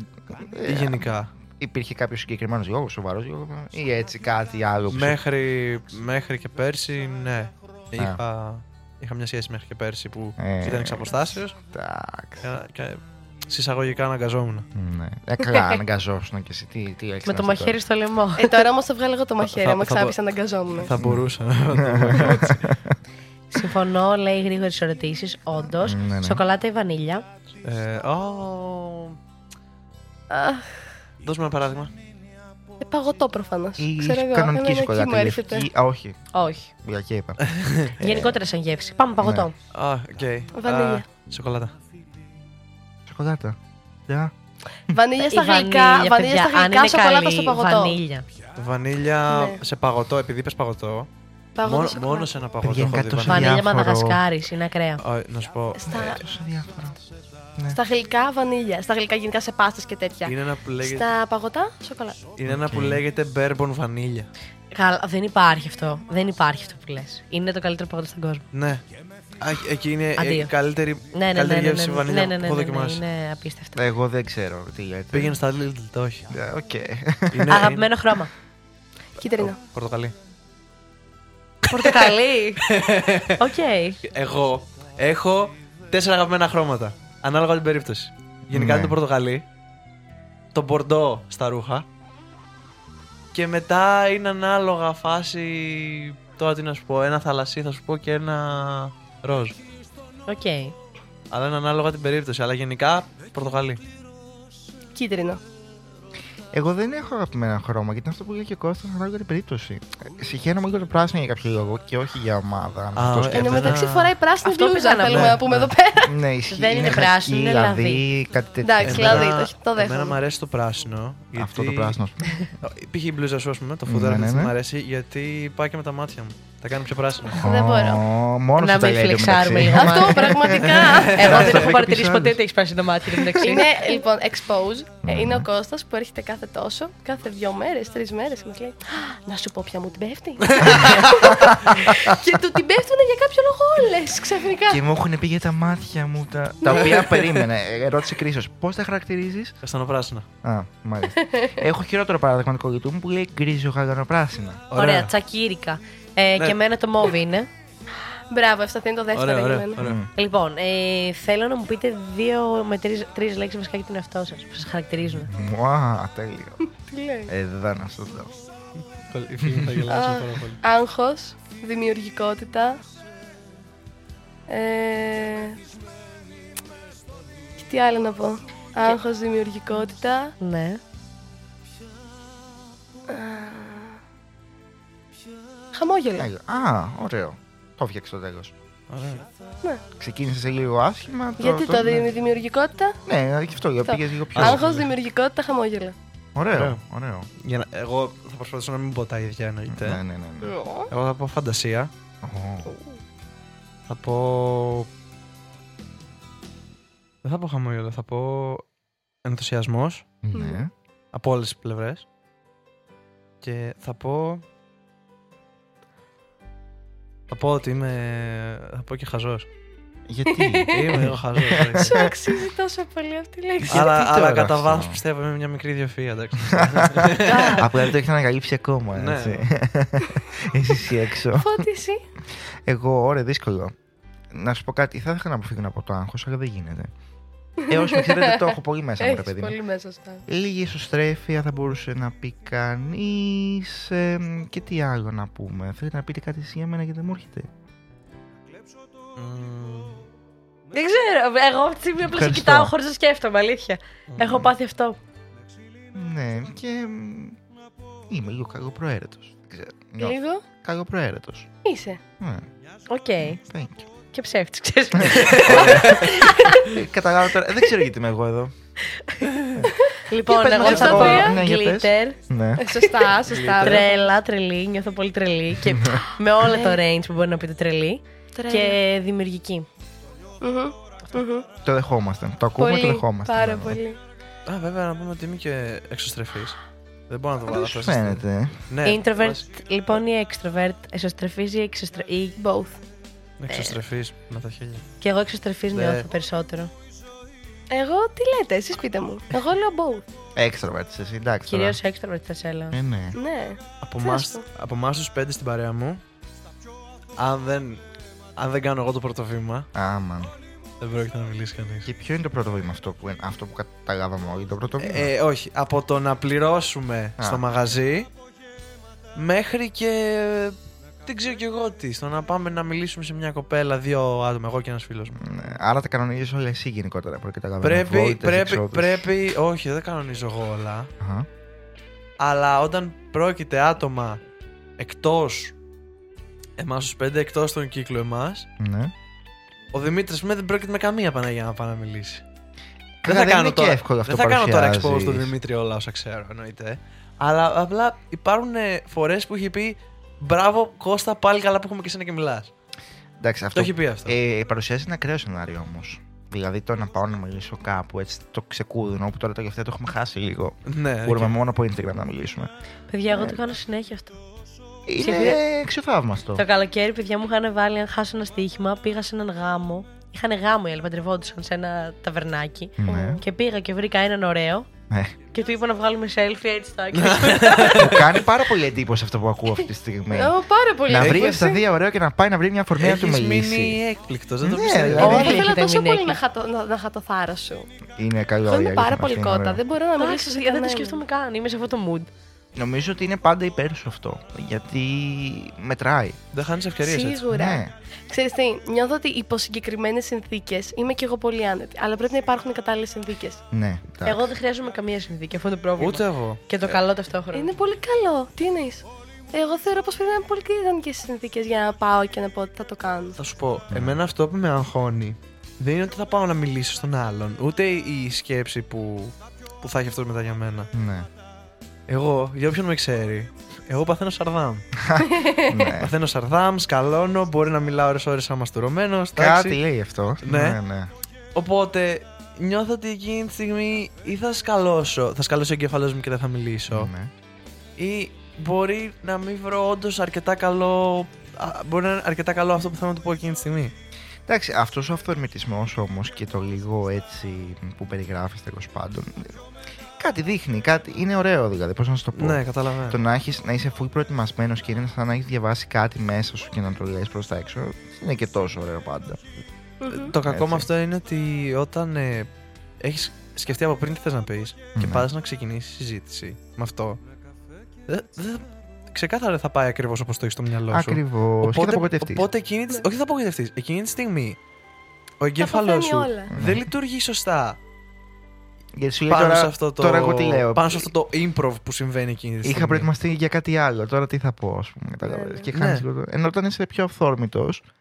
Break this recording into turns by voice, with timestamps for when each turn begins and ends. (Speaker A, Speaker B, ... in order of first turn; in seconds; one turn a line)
Speaker A: 0.3-5.2
Speaker B: 0.6-1.3
Speaker B: 4.9-11.5
Speaker A: 10.4-12.5
Speaker B: 12.4-14.7
Speaker A: 14.7-17.8
Speaker C: 17.2-18.6
Speaker D: 18.4-20.9
Speaker B: 19.4-20.2
Speaker B: 20.7-22.7
Speaker A: 21.0-22.8
Speaker C: 23.5-27.2
Speaker A: 25.8-26.4
Speaker B: 27.6-29.2
Speaker D: 30.3-30.9
Speaker B: 31.2-31.9
Speaker D: 32.8-35.7
Speaker A: 33.8-36.3
Speaker C: 36.3-36.7
Speaker A: 36.8-38.4
Speaker B: 37.5-37.9
Speaker C: 38.0-39.5
Speaker A: 39.2-39.5
Speaker B: 39.7-41.7
Speaker D: 40.5-41.0
Speaker A: 43.1-43.5
Speaker A: 44.1-44.3
Speaker D: 44.9-48.0
Speaker C: 45.2-48.2
Speaker B: 48.5-51.1
Speaker D: 49.3-49.6
Speaker D: 51.6-52.3
Speaker B: 51.6-53.6
Speaker A: 52.6-54.2
Speaker C: 53.3-55.0
Speaker B: 55.0-56.2
Speaker D: 55.7-56.2
Speaker A: 55.9-57.0
Speaker D: 57.7-62.2
Speaker B: 60.2-61.1
Speaker B: 62.4-64.3
Speaker A: 62.5-63.0
Speaker C: 64.7-68.4
Speaker B: 68.5-68.8
Speaker B: 69.4-73.0
Speaker C: 70.2-70.5
Speaker C: 71.1-73.8
Speaker A: 73.8-75.4
Speaker B: 75.1-76.3
Speaker A: 76.3-77.5
Speaker B: 77.3-77.9
Speaker C: 77.5-78.3
Speaker D: 79.2-79.6
Speaker B: 79.6-80.1
Speaker C: 81.7-82.6
Speaker B: 82.7-83.4
Speaker C: 83.4-84.0
Speaker B: 84.0-89.4
Speaker A: 88.5-89.0
Speaker B: 90.5-91.8
Speaker B: 93.3-99.5
Speaker C: 100.3-100.7
Speaker B: 101.3-103.8
Speaker D: 104.9-105.4
Speaker A: 106.5-113.8
Speaker B: 112.9-114.2
Speaker D: 113.3-116.1
Speaker C: 114.4-115.4
Speaker B: 115.1-115.7
Speaker A: 116.0-119.3
Speaker C: 116.5-118.0
Speaker D: 118.6-120.2
Speaker B: 118.8-122.0
Speaker A: 121.3-122.5
Speaker B: 122.6-127.4
Speaker A: 123.8-124.5
Speaker D: 127.3-128.0
Speaker A: 127.3-132.4
Speaker C: 128.6-130.3
Speaker D: 129.8-131.7
Speaker B: 130.7-131.7
Speaker C: 131.2-134.0
Speaker D: 133.4-144.8
Speaker A: 135.0-135.5
Speaker B: 140.5-141.3
Speaker A: 144.7-149.5
Speaker D: 146.6-147.2
Speaker B: 146.7-147.4
Speaker B: 149.6-150.3
Speaker A: 150.4-154.6
Speaker D: 151.2-151.6
Speaker B: 154.7-155.1
Speaker C: 154.7-157.5
Speaker D: 158.3-159.8
Speaker B: 159.1-160.0
Speaker A: 159.8-160.1
Speaker C: 160.2-165.3
Speaker A: 165.2-166.6
Speaker D: 166.8-167.3
Speaker A: 167.3-168.3
Speaker B: 169.1-170.6
Speaker A: 169.4-169.8
Speaker D: 169.9-172.8
Speaker D: 174.5-175.6
Speaker D: 177.6-180.3
Speaker C: 180.4-180.8
Speaker D: 183.1-184.0
Speaker D: 185.7-186.3
Speaker A: 186.2-188.5
Speaker B: 188.9-189.2
Speaker A: 190.0-192.1
Speaker D: 191.4-193.0
Speaker A: 193.1-194.6
Speaker D: 193.8-195.9
Speaker B: 194.3-194.9
Speaker A: 196.3-197.3
Speaker B: 196.5-196.8
Speaker B: 197.4-200.0
Speaker A: 199.7-200.5
Speaker D: 200.4-200.9
Speaker B: 200.9-201.9
Speaker A: 202.2-202.7
Speaker D: 202.7-203.0
Speaker B: 203.9-204.9
Speaker B: 207.2-208.6
Speaker B: 209.2-210.1
Speaker A: 210.2-210.7
Speaker D: 210.3-210.6
Speaker B: 211.1-212.0
Speaker B: 213.4-214.4
Speaker B: 217.3-219.4
Speaker A: 220.1-222.1
Speaker D: 220.3-221.1
Speaker B: 220.7-221.9
Speaker D: 221.8-224.0
Speaker A: 223.6-225.0
Speaker B: 223.7-227.8
Speaker A: 226.4-231.7
Speaker D: 227.2-227.6
Speaker B: 228.9-229.5
Speaker D: 231.3-232.0
Speaker A: 232.4-233.7
Speaker A: 234.3-236.9
Speaker A: 237.7-239.6
Speaker D: 237.7-240.2
Speaker A: 240.3-247.5
Speaker B: 249.2-250.0
Speaker C: 250.7-255.0
Speaker A: 252.0-252.7
Speaker B: 254.1-254.4
Speaker A: 255.9-257.4
Speaker A: 258.1-261.5
Speaker D: 260.0-260.4
Speaker D: 261.6-262.0
Speaker A: 262.2-262.4
Speaker C: 262.9-263.4
Speaker A: 263.2-263.9
Speaker C: 264.1-266.6
Speaker A: 265.0-268.5
Speaker B: 265.3-266.0
Speaker C: 270.1-272.2
Speaker A: 270.2-272.7
Speaker D: 270.6-271.4
Speaker D: 272.6-274.0
Speaker B: 273.3-273.8
Speaker C: 273.6-279.6
Speaker A: 275.6-276.0
Speaker D: 276.4-276.8
Speaker D: 278.4-278.8
Speaker D: 280.4-281.5
Speaker A: 281.6-283.8
Speaker D: 282.6-284.0
Speaker B: 284.5-289.4
Speaker A: 287.4-288.6
Speaker C: 288.8-292.4
Speaker D: 292.4-292.8
Speaker B: 293.4-294.9
Speaker C: 293.5-293.8
Speaker C: 295.0-296.7
Speaker B: 295.7-296.1
Speaker D: 297.7-300.1
Speaker A: 300.4-301.8
Speaker C: 301.5-302.7
Speaker A: 302.7-303.2
Speaker D: 303.1-304.4
Speaker B: 303.8-306.0
Speaker B: 307.2-307.8
Speaker B: 308.4-309.7
Speaker A: 309.7-310.3
Speaker B: 310.8-311.9
Speaker A: 311.9-315.1
Speaker B: 314.8-318.1
Speaker A: 317.2-317.4
Speaker B: 319.1-325.2
Speaker A: 325.2-329.1
Speaker B: 327.6-330.9
Speaker A: 331.0-331.3
Speaker B: 332.2-334.2
Speaker B: 334.8-335.5
Speaker B: 336.6-338.5
Speaker A: 338.6-338.9
Speaker B: 339.7-342.2
Speaker A: 343.0-345.3
Speaker B: 343.1-352.5
Speaker A: 353.2-362.5
Speaker B: 353.5-354.1
Speaker B: 360.6-361.4
Speaker C: 362.9-364.2
Speaker A: 363.1-363.4
Speaker A: 364.9-366.4
Speaker C: 365.0-365.4
Speaker C: 366.4-374.7
Speaker A: 372.8-373.2
Speaker D: 372.9-373.2
Speaker A: 374.9-375.1
Speaker C: 375.3-377.9
Speaker B: 376.9-378.1
Speaker A: 377.7-383.8
Speaker D: 380.1-381.6
Speaker B: 380.9-381.3
Speaker B: 382.8-385.3
Speaker A: 384.4-385.5
Speaker D: 385.0-387.7
Speaker C: 385.0-386.2
Speaker A: 388.0-389.6
Speaker D: 388.5-391.0
Speaker C: 390.0-392.1
Speaker A: 392.6-396.2
Speaker B: 396.3-397.2
Speaker D: 396.8-403.4
Speaker A: 397.3-397.7
Speaker A: 403.5-404.3
Speaker C: 404.0-407.5
Speaker B: 405.8-406.8
Speaker D: 407.3-413.2
Speaker B: 413.2-420.7
Speaker A: 413.7-414.0
Speaker A: 420.7-421.1
Speaker B: 421.9-424.6
Speaker A: 424.8-425.9
Speaker D: 425.1-425.7
Speaker B: 425.8-429.6
Speaker A: 429.1-430.9
Speaker B: 430.2-430.6
Speaker B: 431.3-436.9
Speaker A: 436.7-437.1
Speaker B: 437.8-443.7
Speaker A: 444.3-449.4
Speaker A: 450.0-459.2
Speaker B: 452.1-453.0
Speaker D: 459.8-460.1
Speaker B: 459.9-462.3
Speaker A: 460.3-460.7
Speaker B: 462.8-467.0
Speaker A: 464.8-465.1
Speaker B: 467.9-474.4
Speaker A: 470.7-472.3
Speaker B: 475.2-477.6
Speaker D: 475.4-476.3
Speaker A: 476.3-476.7
Speaker A: 478.8-480.9
Speaker B: 479.1-482.9
Speaker A: 482.4-487.6
Speaker D: 485.1-485.5
Speaker B: 485.5-485.8